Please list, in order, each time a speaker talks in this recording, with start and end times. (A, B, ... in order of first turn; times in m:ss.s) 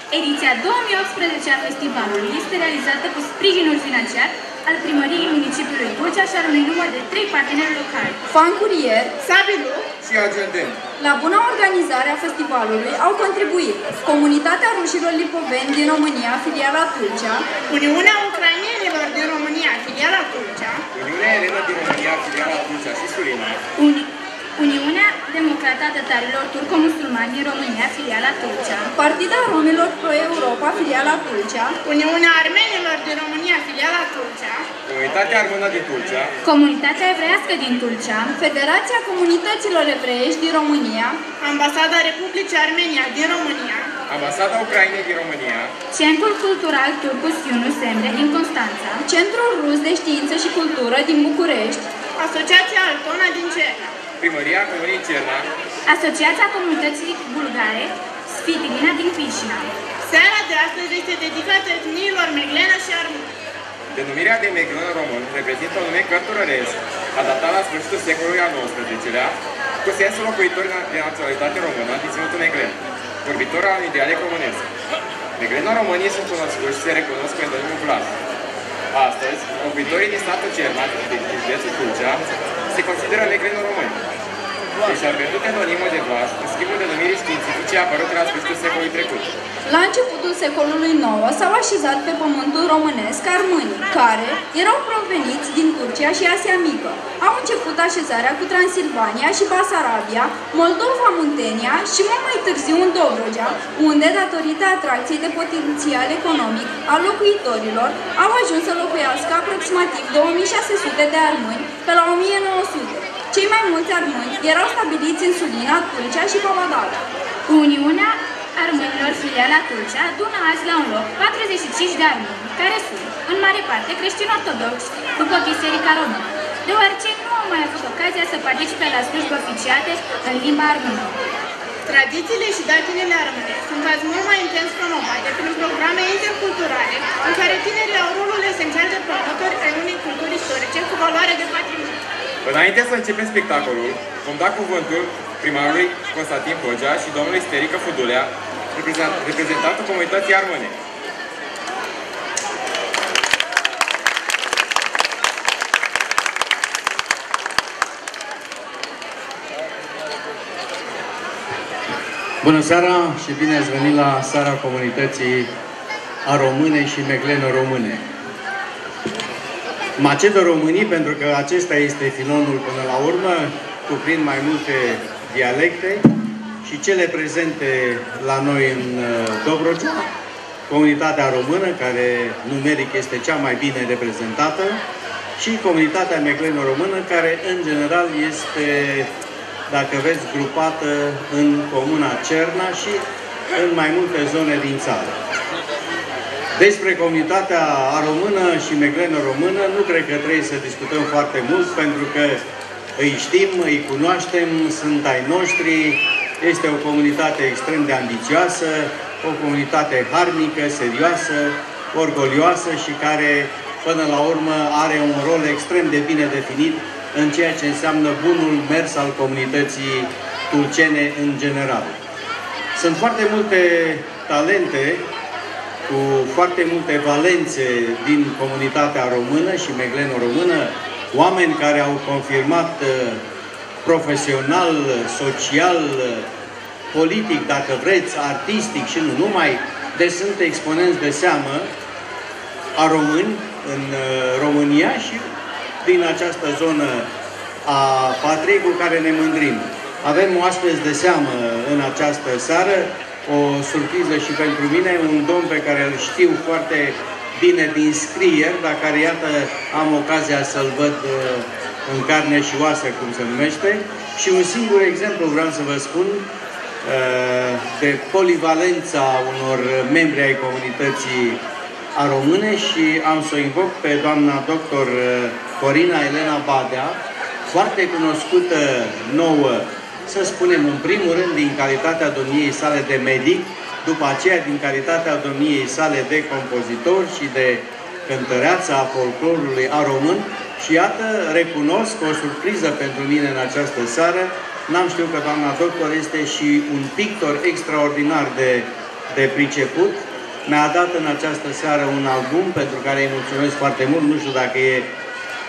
0:00.1-0:08.2 A
0:08.3-0:09.2 B
0:09.2-0:09.9 C
0:10.0-0:10.8 D
0:11.0-0:17.5 B
0:17.6-0:20.8 C
0:20.9-0:23.6 D
0:23.8-0:28.9 A
0:28.9-0:31.8 B
0:31.8-0:34.7 C
0:34.9-0:36.3 D
0:36.4-0:38.3 A
0:38.4-0:41.2 B
0:41.4-0:43.9 C
0:44.1-0:45.7 D
0:45.9-0:49.0 A
0:49.0-0:51.9 B
0:52.2-0:54.0 C
0:54.2-0:55.5 D
0:55.8-0:59.7 A
1:00.0-1:03.3 C
1:03.9-1:14.7 D
1:15.4-1:18.2 D
1:18.9-1:24.0 D
1:24.8-1:29.4 D
1:29.6-1:57.0 B
1:57.5-2:11.2 A
2:11.8-2:22.0 C
2:22.4-2:30.8 D
2:42.4-2:45.5 E
2:46.2-2:48.0 E
2:50.0-2:56.1 E
2:56.6-3:00.1 E
3:00.7-3:04.8 E
3:05.4-3:09.1 E
3:09.7-3:15.2 E
3:16.5-3:22.4 E
3:23.0-3:42.0 E
3:42.7-3:45.1 E
3:45.9-3:53.2 E
3:53.8-3:56.3 E
3:56.9-4:01.7 E
4:02.8-4:05.3 E
4:05.8-4:07.1 E
4:07.6-4:26.2 E
4:26.8-4:31.4 E
4:31.9-5:04.9 E